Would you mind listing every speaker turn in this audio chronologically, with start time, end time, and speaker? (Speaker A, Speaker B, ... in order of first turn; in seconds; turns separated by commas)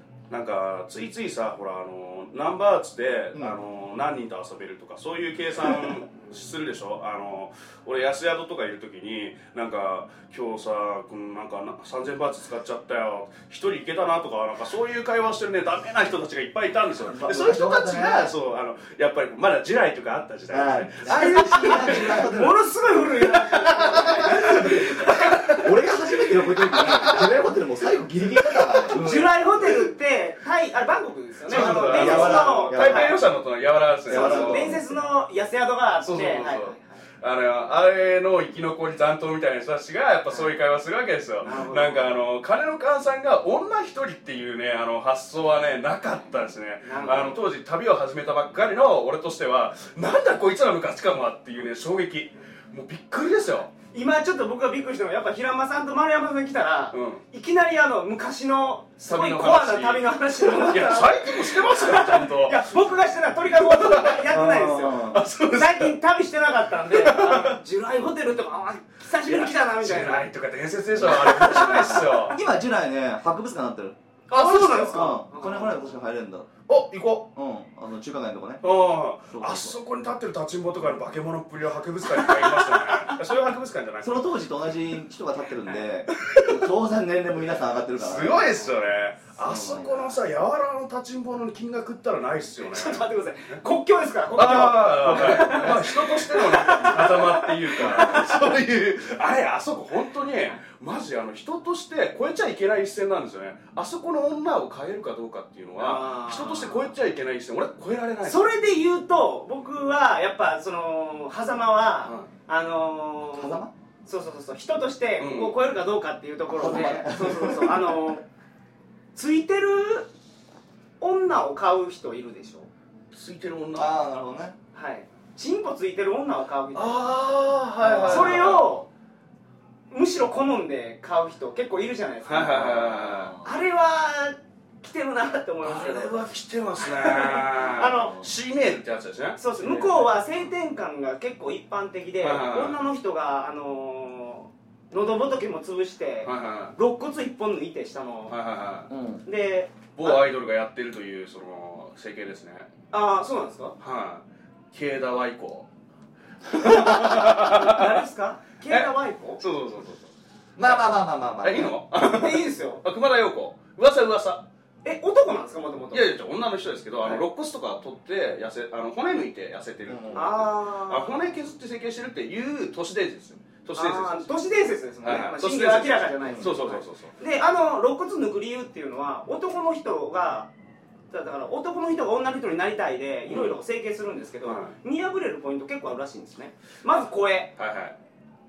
Speaker A: 0.3-22.2, Speaker B: 3.4-3.6, Speaker B: 5.7-6.0, Speaker B: 17.0-18.3, Speaker B: 20.5-22.6, Speaker C: 21.1-25.6, Speaker A: 23.3-25.7, Speaker B: 24.0-29.3, Speaker A: 26.6-27.3, Speaker C: 28.9-33.2, Speaker B: 31.5-33.2, Speaker A: 31.5-34.8, Speaker B: 34.1-35.0, Speaker C: 34.1-37.0, Speaker A: 36.0-53.7, Speaker C: 40.3-40.6, Speaker C: 41.4-42.1, Speaker C: 46.8-47.4, Speaker C: 53.9-70.3, Speaker A: 56.9-57.2, Speaker A: 59.0-62.7, Speaker A: 63.5-64.3, Speaker B: 64.3-65.2, Speaker A: 65.1-66.0, Speaker A: 66.9-67.6, Speaker A: 69.2-72.4, Speaker B: 71.0-74.0, Speaker C: 71.1-72.2, Speaker A: 74.3-75.1, Speaker C: 74.3-75.9, Speaker B: 74.8-76.5, Speaker A: 76.7-77.3, Speaker B: 77.3-78.6, Speaker A: 78.6-84.4, Speaker B: 79.3-79.8, Speaker B: 84.0-88.6, Speaker A: 86.1-86.7, Speaker A: 88.0-93.6, Speaker C: 88.5-88.8, Speaker B: 89.4-90.1, Speaker C: 92.6-98.5, Speaker A: 94.3-108.5, Speaker B: 95.1-95.9, Speaker C: 105.8-106.9, Speaker C: 108.2-118.2, Speaker B: 113.3-113.7, Speaker A: 115.2-115.5, Speaker B: 116.5-118.0, Speaker A: 116.7-117.0, Speaker C: 119.2-120.1, Speaker C: 121.0-122.7, Speaker A: 123.1-123.9, Speaker B: 123.8-124.6, Speaker C: 124.7-127.0, Speaker A: 126.8-128.8, Speaker B: 127.8-128.6, Speaker C: 128.1-128.9, Speaker C: 129.9-136.2, Speaker A: 132.2-133.3, Speaker B: 132.5-133.5, Speaker A: 135.6-140.2, Speaker C: 136.8-138.2, Speaker B: 137.9-138.2, Speaker C: 139.4-148.3, Speaker A: 142.2-142.8, Speaker A: 146.2-146.8, Speaker A: 148.3-148.9, Speaker B: 148.9-149.2, Speaker C: 149.2-150.2, Speaker A: 150.0-152.7, Speaker C: 152.9-153.8, Speaker A: 153.8-155.7, Speaker A: 156.5-158.0, Speaker C: 156.5-159.4, Speaker A: 158.7-160.1, Speaker B: 160.6-161.8, Speaker A: 161.4-164.5, Speaker C: 162.0-162.8, Speaker C: 164.8-166.1, Speaker A: 165.9-174.4, Speaker B: 169.9-170.3, Speaker C: 170.1-171.3, Speaker C: 173.8-180.5, Speaker A: 175.0-177.2, Speaker B: 176.2-176.5, Speaker C: 181.1-187.5, Speaker A: 183.3-183.6, Speaker A: 184.4-184.7, Speaker A: 187.6-187.9